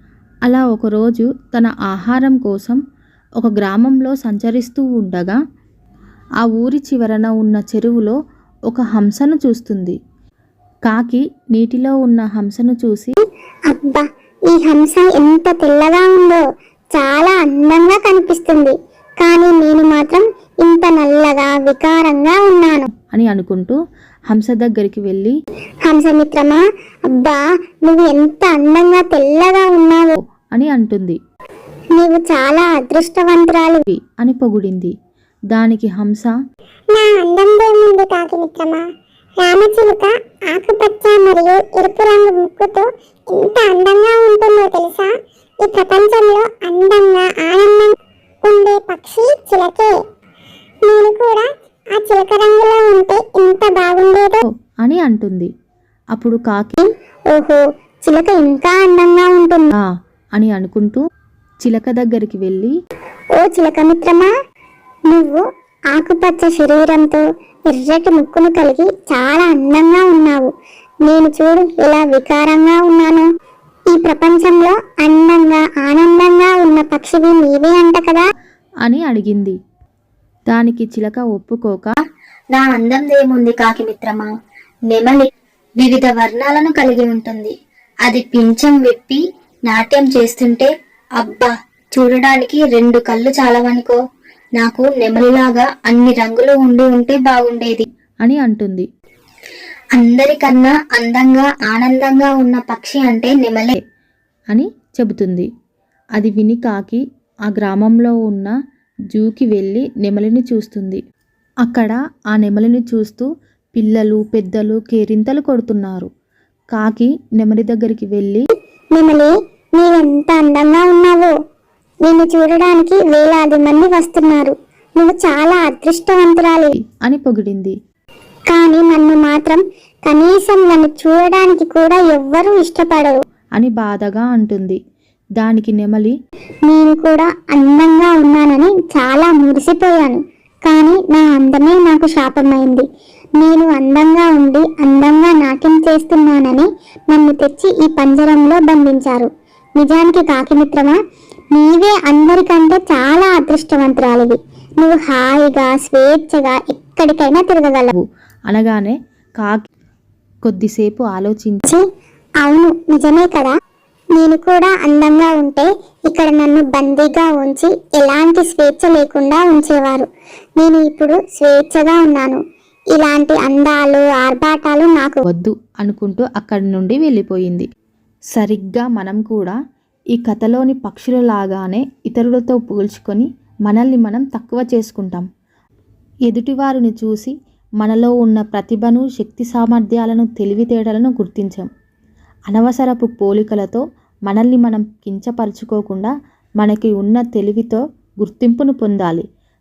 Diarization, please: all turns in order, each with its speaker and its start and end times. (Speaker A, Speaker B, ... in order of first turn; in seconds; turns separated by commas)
Speaker A: 0.5-2.8, Speaker A: 3.4-5.4, Speaker A: 6.4-8.2, Speaker A: 8.7-9.9, Speaker A: 10.9-13.1, Speaker B: 13.7-16.4, Speaker B: 16.9-22.9, Speaker A: 23.1-23.8, Speaker A: 24.3-25.3, Speaker B: 25.9-26.6, Speaker B: 27.1-30.1, Speaker A: 30.5-31.2, Speaker B: 31.9-33.8, Speaker A: 33.9-34.9, Speaker A: 35.5-36.3, Speaker B: 36.9-38.8, Speaker B: 39.4-49.9, Speaker B: 50.9-54.4, Speaker A: 54.7-55.5, Speaker A: 56.1-56.8, Speaker B: 56.8-59.7, Speaker A: 60.4-61.0, Speaker A: 61.6-62.7, Speaker B: 63.4-64.3, Speaker B: 65.1-70.5, Speaker B: 71.0-73.2, Speaker B: 73.9-78.2, Speaker A: 78.8-79.6, Speaker A: 80.5-81.9, Speaker C: 82.5-84.3, Speaker C: 84.9-85.2, Speaker C: 85.8-87.5, Speaker C: 88.1-94.0, Speaker C: 94.6-97.8, Speaker A: 98.2-98.9, Speaker C: 100.0-103.7, Speaker A: 104.5-105.5, Speaker A: 106.2-108.5, Speaker A: 109.1-111.0, Speaker A: 111.6-116.1, Speaker A: 116.7-118.4, Speaker B: 118.9-121.3, Speaker B: 122.0-126.7, Speaker A: 126.9-127.7, Speaker B: 128.5-133.2, Speaker A: 133.6-134.8, Speaker A: 135.4-136.1, Speaker B: 136.7-142.8, Speaker B: 143.4-151.0, Speaker B: 151.5-157.9, Speaker A: 157.9-159.6, Speaker A: 160.4-161.7, Speaker B: 162.4-163.5, Speaker B: 164.2-170.1, Speaker B: 170.6-172.4, Speaker B: 172.9-175.2, Speaker A: 175.3-177.7, Speaker A: 178.3-179.6, Speaker A: 180.1-185.3, Speaker A: 186.3-191.7, Speaker A: 192.5-199.2